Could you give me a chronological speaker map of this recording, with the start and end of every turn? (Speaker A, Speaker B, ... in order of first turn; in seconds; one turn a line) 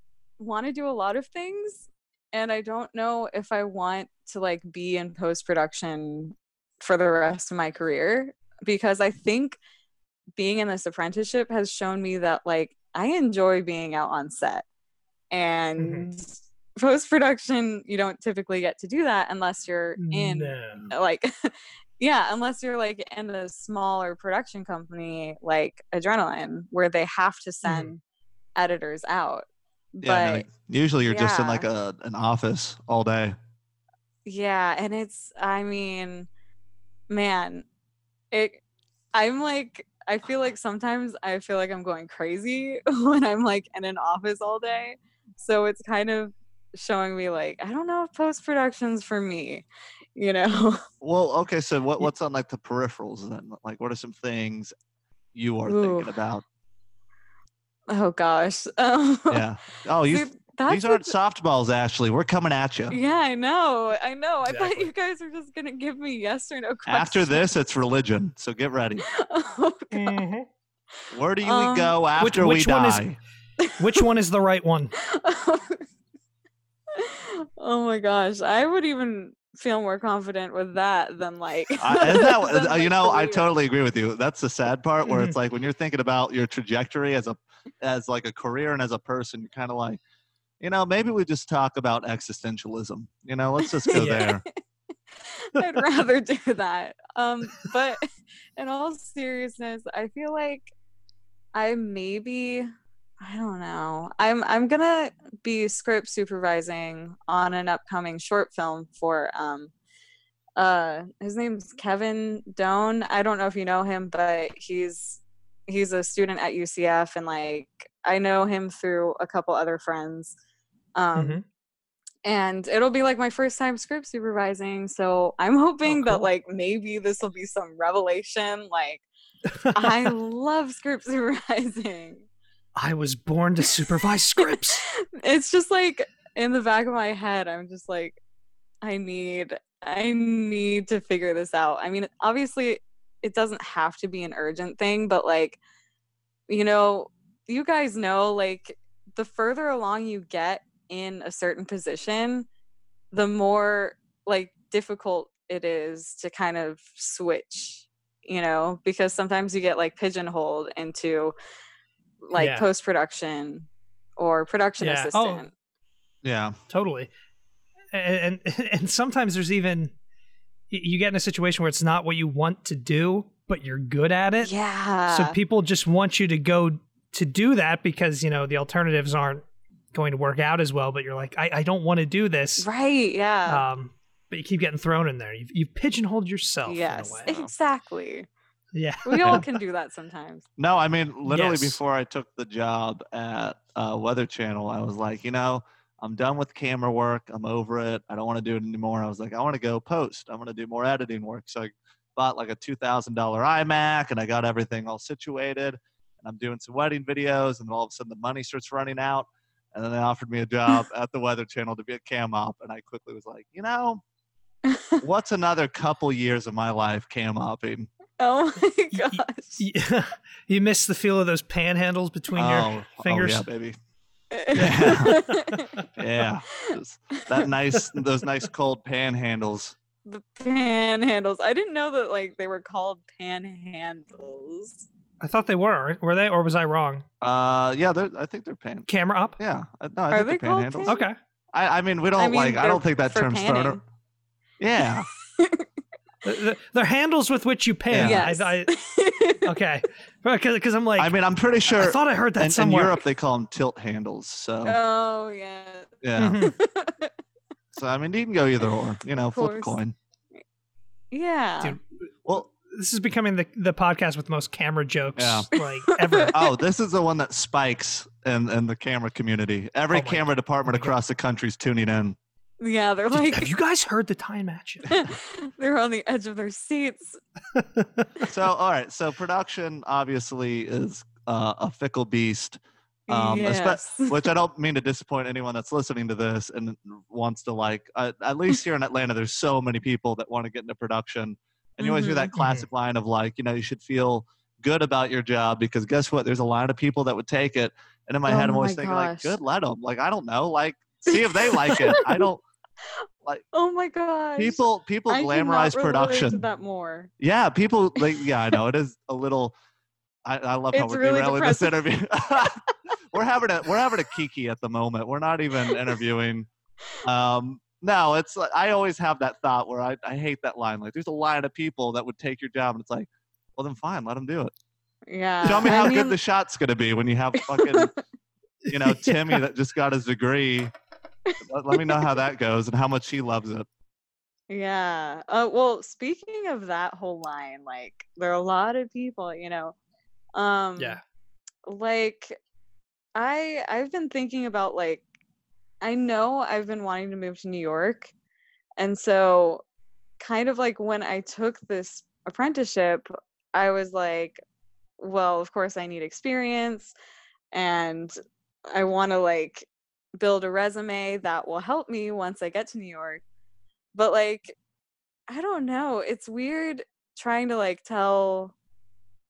Speaker A: 0.4-9.6
Speaker A: 10.3-14.6
Speaker A: 15.3-28.0
Speaker B: 15.8-16.1
Speaker B: 20.0-20.8
Speaker B: 27.6-27.9
Speaker A: 28.6-29.4
Speaker A: 30.0-30.5
Speaker C: 30.0-33.4
Speaker A: 31.1-31.6
Speaker A: 34.2-36.3
Speaker A: 37.1-37.6
Speaker A: 38.3-38.6
Speaker A: 39.1-49.6
Speaker A: 50.1-50.8
Speaker C: 51.0-54.7
Speaker C: 55.3-56.4
Speaker A: 55.6-56.1
Speaker A: 57.9-59.5
Speaker C: 59.3-63.0
Speaker A: 60.1-61.1
Speaker A: 62.9-67.5
Speaker B: 64.4-64.9
Speaker C: 66.9-69.0
Speaker A: 69.0-70.2
Speaker B: 69.9-70.5
Speaker C: 71.1-73.2
Speaker A: 71.4-72.0
Speaker B: 72.2-73.0
Speaker A: 73.6-74.0
Speaker B: 73.8-74.9
Speaker A: 75.0-75.8
Speaker A: 76.9-83.5
Speaker C: 81.8-90.0
Speaker B: 85.0-85.4
Speaker C: 90.6-94.4
Speaker A: 93.9-94.5
Speaker B: 93.9-94.2
Speaker A: 95.2-98.0
Speaker A: 98.6-100.7
Speaker A: 101.5-109.7
Speaker A: 110.6-120.3
Speaker A: 120.9-121.4
Speaker B: 121.2-121.4
Speaker A: 122.2-129.0
Speaker B: 125.8-126.3
Speaker B: 129.5-130.1
Speaker A: 129.7-132.2
Speaker B: 132.8-134.8
Speaker A: 134.4-138.2
Speaker A: 138.8-145.6
Speaker A: 146.5-152.5
Speaker A: 153.1-161.3
Speaker A: 162.2-165.5
Speaker B: 162.3-162.7
Speaker B: 164.8-165.4
Speaker C: 166.2-166.6
Speaker B: 166.7-167.1
Speaker B: 167.9-169.9
Speaker B: 170.7-174.5
Speaker A: 174.4-175.3
Speaker B: 175.1-182.7
Speaker A: 182.6-183.6
Speaker B: 183.4-187.4
Speaker A: 186.7-188.3
Speaker B: 188.7-189.4
Speaker A: 189.0-190.4
Speaker C: 190.6-214.0
Speaker B: 191.2-191.8
Speaker A: 214.7-215.0
Speaker C: 215.0-217.9
Speaker A: 218.2-219.6
Speaker B: 218.9-223.4
Speaker C: 222.3-223.8
Speaker A: 224.3-225.7
Speaker C: 224.5-225.2
Speaker B: 224.5-225.8
Speaker C: 226.0-229.8
Speaker A: 230.0-234.8
Speaker B: 235.2-237.0
Speaker C: 237.2-240.9
Speaker B: 238.9-239.4
Speaker A: 240.1-241.0
Speaker B: 240.9-241.2
Speaker C: 241.5-243.8
Speaker A: 242.2-243.8
Speaker C: 244.6-245.1
Speaker A: 245.4-245.7
Speaker B: 246.2-248.7
Speaker C: 247.9-248.3
Speaker A: 248.0-249.5
Speaker B: 249.4-251.1
Speaker C: 251.0-254.8
Speaker B: 251.7-253.0
Speaker A: 254.6-257.1
Speaker C: 256.0-256.5
Speaker B: 256.2-256.5
Speaker C: 257.7-259.9
Speaker A: 259.3-259.8
Speaker A: 261.1-261.8
Speaker B: 261.6-261.9
Speaker B: 262.6-266.3
Speaker C: 265.1-265.5
Speaker A: 265.6-266.3
Speaker C: 266.3-272.2
Speaker B: 269.9-270.9
Speaker A: 272.6-273.5
Speaker B: 273.1-275.1
Speaker A: 274.9-277.2
Speaker B: 277.5-278.3
Speaker C: 278.2-302.4
Speaker A: 283.1-284.2
Speaker A: 291.8-292.3
Speaker B: 292.4-292.7
Speaker A: 298.2-299.4
Speaker A: 301.1-302.0
Speaker A: 303.5-307.1
Speaker C: 304.4-306.4
Speaker C: 307.2-309.5
Speaker C: 310.2-316.5
Speaker A: 310.7-311.8
Speaker C: 317.0-324.5
Speaker A: 325.1-326.2
Speaker C: 325.4-327.9
Speaker A: 327.4-328.0
Speaker B: 328.6-329.4
Speaker C: 328.7-330.7
Speaker A: 331.2-332.0
Speaker C: 331.4-333.7
Speaker A: 334.5-339.7
Speaker A: 340.3-341.0
Speaker A: 341.6-342.4
Speaker A: 343.1-345.0
Speaker A: 345.8-348.1
Speaker A: 348.8-349.6
Speaker A: 350.2-354.4
Speaker A: 355.0-356.9
Speaker A: 357.5-358.1
Speaker A: 358.7-363.2
Speaker A: 363.9-364.6
Speaker A: 365.3-368.5